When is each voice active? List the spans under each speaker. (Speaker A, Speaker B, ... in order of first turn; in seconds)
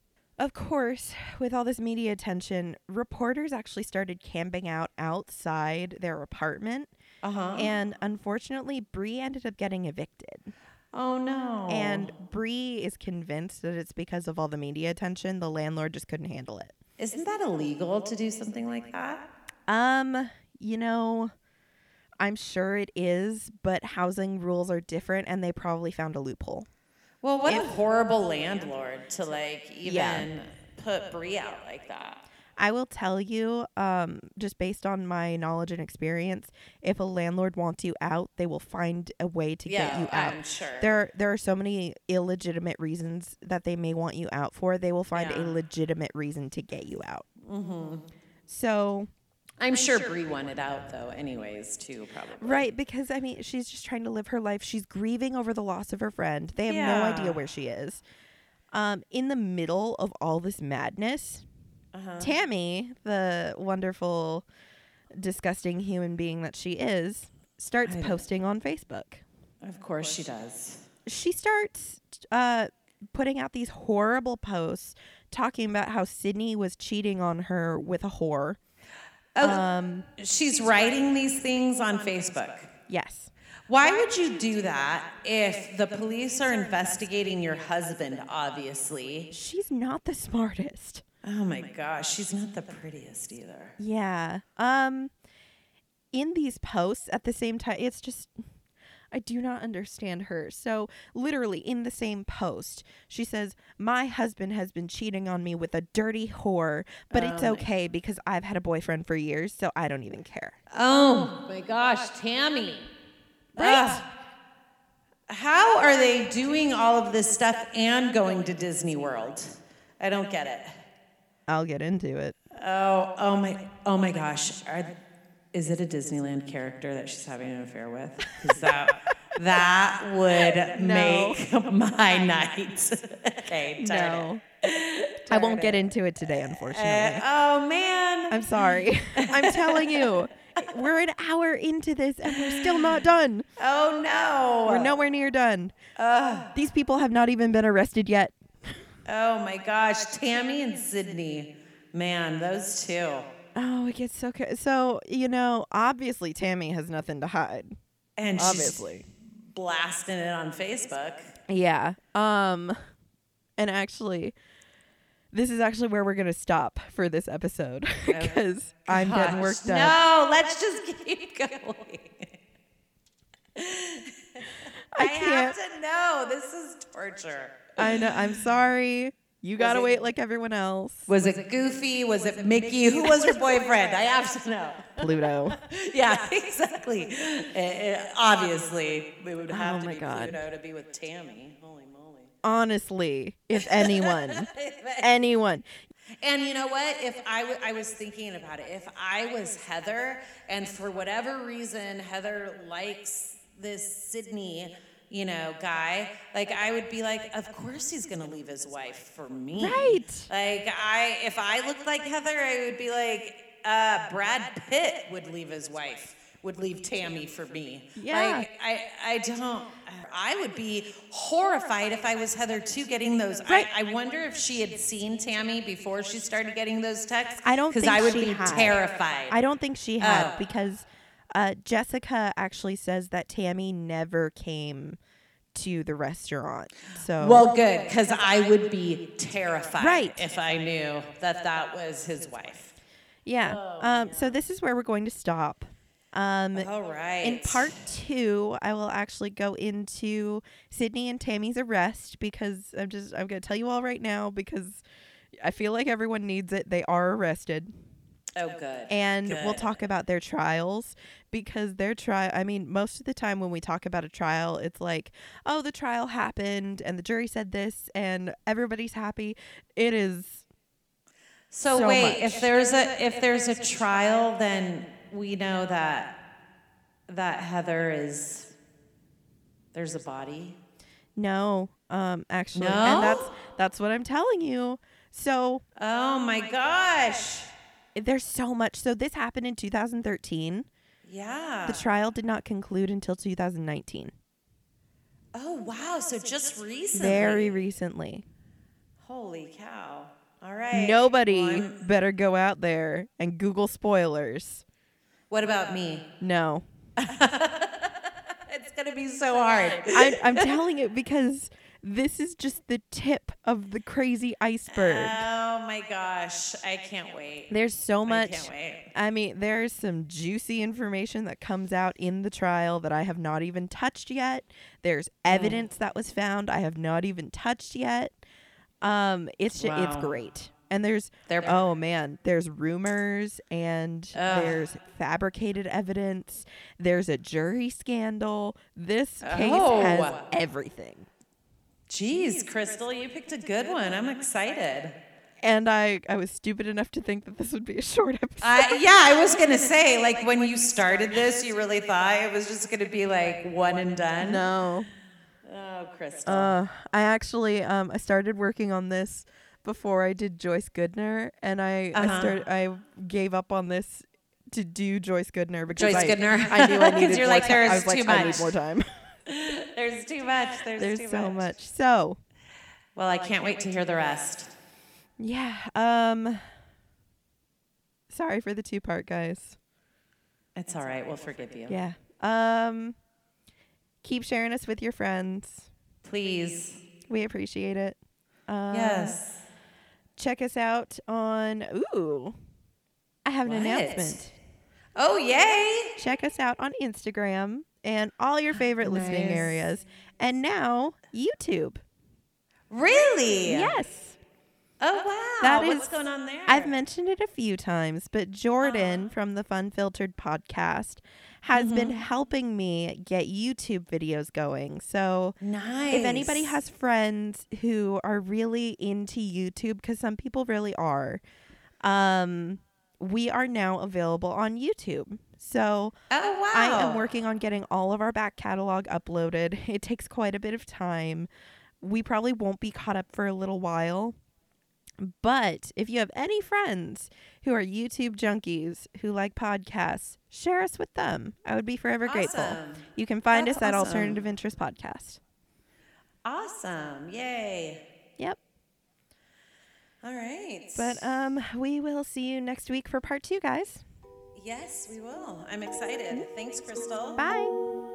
Speaker A: 0.4-6.9, 7.5-10.5, 11.7-16.7, 19.7-21.3, 22.2-26.7, 27.4-27.7, 29.8-30.3, 32.6-47.2, 48.5-49.1, 52.4-58.0, 58.7-61.5, 62.2-64.5, 65.2-69.2, 71.0-78.6, 79.4-80.1, 82.9-83.3, 89.3-91.0, 93.8-95.1, 96.1-98.4, 99.1-110.6, 113.5-114.1, 121.5-122.3, 130.7-131.4, 133.8-134.4, 135.3-137.2, 138.3-143.5, 144.7-145.8, 146.5-148.7, 153.5-157.8, 158.3-159.0, 161.5-162.8, 163.6-164.3, 165.3-170.0, 174.9-175.6, 177.8-181.1, 182.8-183.6, 185.0-185.6, 189.5-190.4, 192.4-195.7, 209.5-210.3, 218.0-218.5, 227.4-228.8, 229.3-235.0, 235.5-237.5, 239.8-240.2, 243.2-246.7, 247.2-254.8, 255.3-257.7, 258.9-270.4, 271.6-272.5, 281.1-285.6, 287.9-290.7, 291.6-294.1, 296.9-298.2, 300.7-304.6, 306.2-306.6, 309.9-315.2, 317.5-328.2, 328.8-341.1, 345.4-348.8, 354.2-354.9, 356.2-368.9, 370.8-372.2, 375.2-376.4, 378.1-379.6, 381.7-383.0, 384.0-385.7, 387.1-389.2, 390.1-392.4, 393.2-394.3, 395.9-401.8, 403.4-404.2, 405.4-415.4, 415.9-421.2, 421.8-425.9, 426.5-431.3, 431.8-434.2, 435.0-445.2, 450.8-453.8, 457.2-457.6
Speaker B: 7.2-7.7, 10.9-12.1, 17.0-19.3, 27.2-32.2, 39.6-40.9, 45.1-45.5, 47.4-48.1, 49.6-52.7, 56.7-57.4, 61.9-62.3, 67.8-68.2, 69.6-70.9, 79.3-79.6, 80.2-82.7, 83.7-89.3, 91.2-93.8, 107.1-107.7, 110.7-112.9, 113.6-114.0, 115.3-120.8, 122.5-125.0, 125.5-135.8, 136.5-138.4, 139.2-140.6, 142.3-143.0, 143.6-144.9, 146.0-146.5, 149.1-153.3, 158.2-161.3, 168.1-172.3, 173.6-178.2, 179.6-179.9, 181.1-192.3, 193.6-195.1, 196.2-229.4, 230.0-230.4, 237.2-242.7, 243.4-244.3, 246.5-247.8, 258.4-259.7, 271.5-276.2, 277.1-278.5, 279.7-280.6, 282.5-283.3, 285.8-287.5, 291.0-291.9, 295.3-297.6, 299.0-301.8, 305.3-306.1, 307.0-310.5, 314.7-317.5, 318.0-318.9, 325.3-325.6, 329.6-330.1, 331.3-331.6, 334.1-334.6, 339.2-340.2, 341.9-345.0, 348.4-354.4, 355.4-356.5, 361.9-362.4, 365.8-368.5, 369.3-371.5, 372.9-374.5, 380.6-381.8, 386.0-386.8, 388.7-389.4, 393.4-394.2, 394.9-395.9, 398.8-399.6, 402.7-403.7, 404.8-406.8, 408.6-409.1, 411.5-412.0, 415.4-416.6, 426.1-427.0, 442.1-444.2, 446.2-447.8, 450.0-451.0, 454.3-457.2